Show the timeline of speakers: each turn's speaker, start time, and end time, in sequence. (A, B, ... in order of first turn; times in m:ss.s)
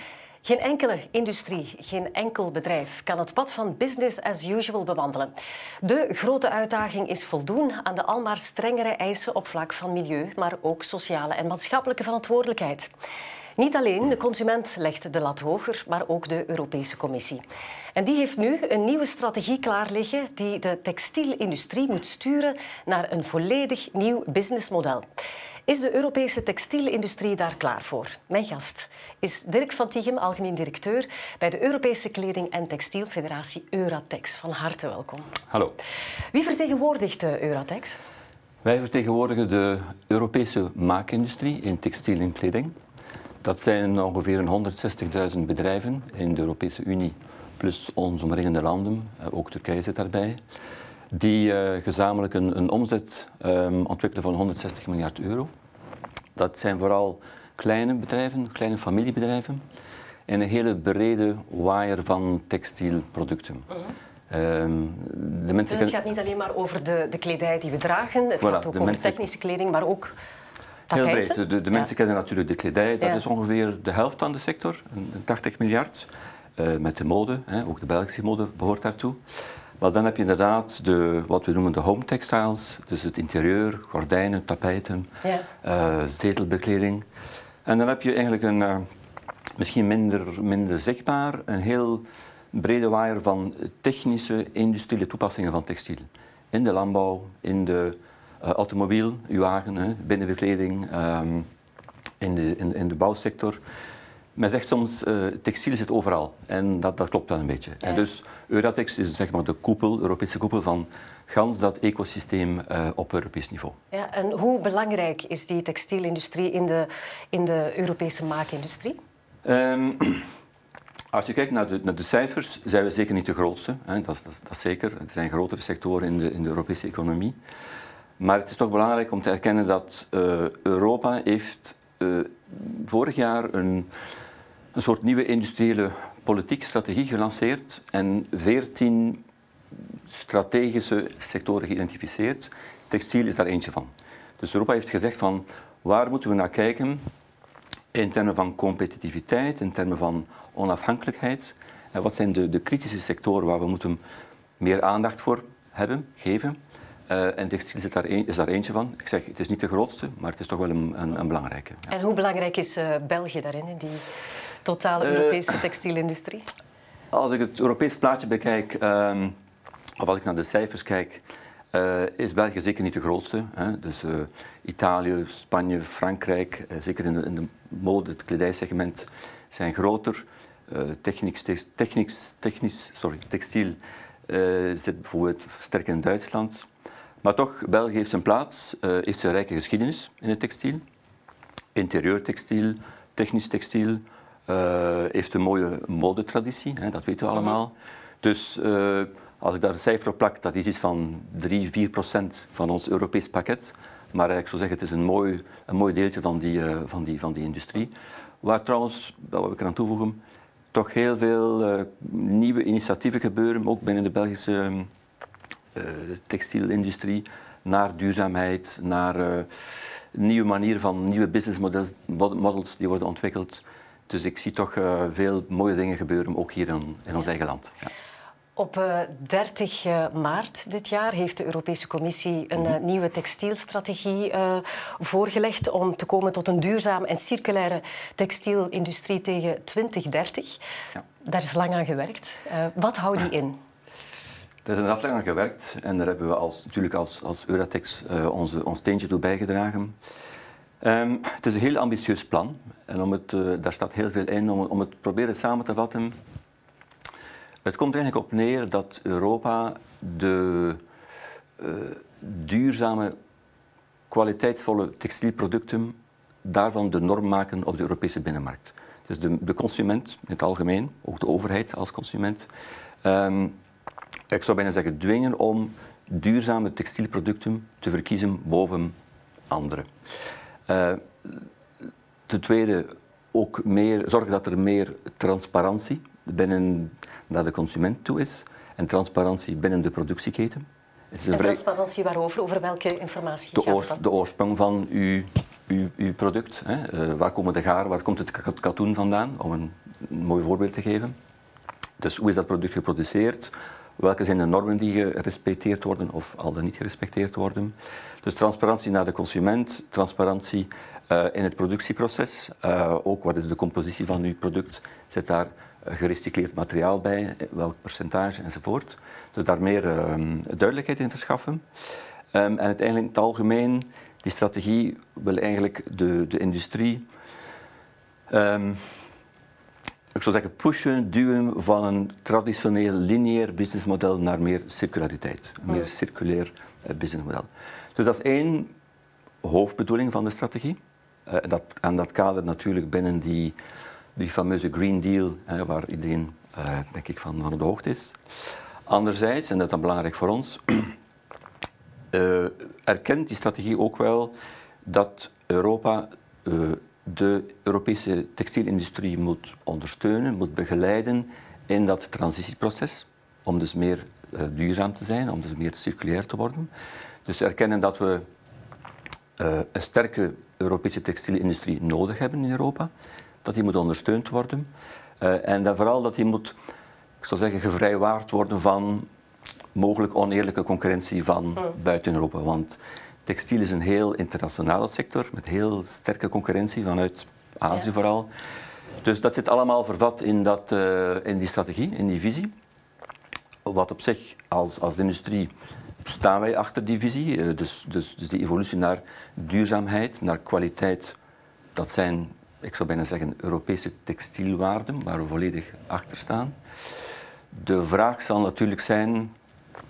0:00.4-0:12.9 A
0:13.6-0:17.4 A
0:18.0-0:25.1 A
0:25.7-0:35.4 A
0:35.5-0:35.8 B
0:36.3-0:38.0 A
0:38.6-0:42.8 B
0:43.4-0:50.4 B
0:51.1-0:55.5 B
0:56.4-0:59.6 B
1:00.3-1:03.7 B
1:04.3-1:06.0 B
1:05.7-1:10.1 A
1:08.4-1:09.2 B
1:10.9-1:19.2 B
1:10.9-1:11.4 A
1:19.8-1:25.1 B
1:25.6-1:27.1 B
1:27.6-1:28.9 B
1:29.6-1:41.5 B
1:42.2-1:43.6 B
1:44.4-1:53.8 B
1:53.9-1:59.0 A
1:59.4-2:00.3 B
2:01.1-2:07.4 B
2:08.2-2:13.9 B
2:14.7-2:19.2 B
2:20.1-2:27.0 B
2:27.9-2:34.0 B
2:34.6-2:41.9 B
2:41.9-2:44.0 A
2:44.6-2:46.5 A
2:45.0-2:45.5 B
2:47.1-2:49.4 B
2:50.0-3:06.7 B
3:07.2-3:10.8 B
3:11.8-3:30.2 B
3:30.7-3:34.9 B
3:35.7-3:47.9 B
3:48.6-4:00.6 A
4:01.2-4:03.6 A
4:04.6-4:10.0 B
4:10.8-4:16.2 B
4:17.6-4:20.8 B
4:21.6-4:23.2 B
4:24.1-4:32.5 B
4:33.0-4:33.6 B
4:34.3-4:38.9 B
4:39.5-4:39.9 B
4:40.7-4:41.4 B
4:42.3-4:51.6 B
4:51.3-4:54.0 A
4:53.5-5:01.2 B
5:02.0-5:21.6 B
5:22.3-5:27.1 B
5:28.3-5:29.1 B
5:30.2-5:38.7 B
5:39.4-5:43.6 B
5:44.2-5:50.9 B
5:52.1-5:54.3 B
5:54.8-6:06.7 B
6:07.2-6:08.2 B
6:09.4-6:12.9 B
6:13.4-6:14.7 B
6:15.2-6:16.6 B
6:17.2-6:19.1 B
6:19.8-6:28.3 B
6:29.0-6:32.5 B
6:33.6-6:35.5 B
6:36.0-6:41.2 B
6:41.8-6:46.6 B
6:47.5-6:49.3 B